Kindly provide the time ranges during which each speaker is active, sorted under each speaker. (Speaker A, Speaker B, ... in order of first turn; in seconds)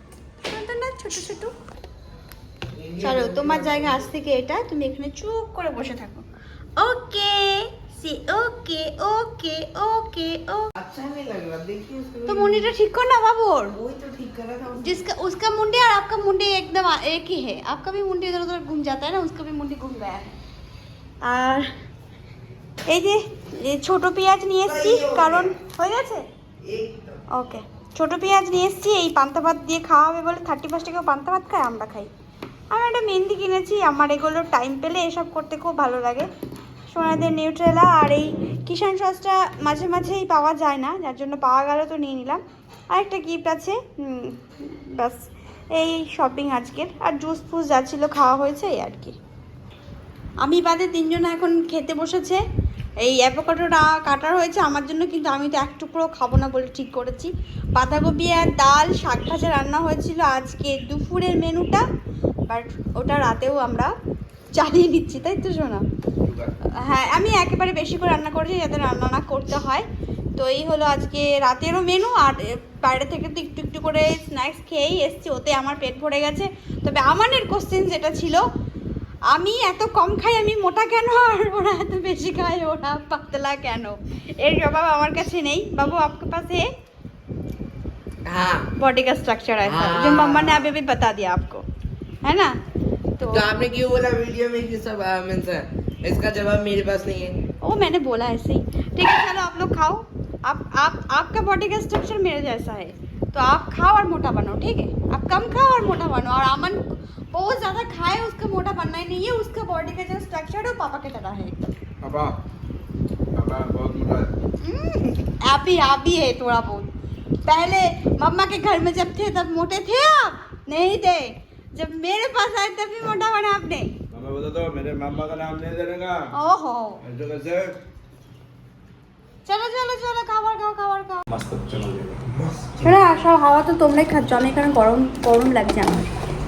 Speaker A: 0.5-1.5, 3.0-6.2, 6.8-10.7, 12.3-13.8, 14.8-20.4, 21.2-21.7, 22.9-26.2, 27.3-32.1, 32.7-36.3, 36.9-49.2, 50.4-52.4, 53.0-61.8, 62.5-63.9, 64.5-65.8, 66.8-78.4, 79.3-86.7, 88.8-91.6, 92.2-92.6, 93.2-93.5, 97.6-111.6, 114.6-116.9, 117.5-123.9, 126.3-127.0, 129.5-131.2, 132.8-136.1
Speaker B: 2.7-4.0, 10.8-12.7, 13.7-15.0, 24.6-25.6, 26.6-27.2, 88.3-88.7, 89.6-90.7, 93.3-97.4
Speaker C: 66.2-66.6, 112.0-112.4, 113.3-114.3, 124.1-126.3, 127.0-127.8, 131.3-133.0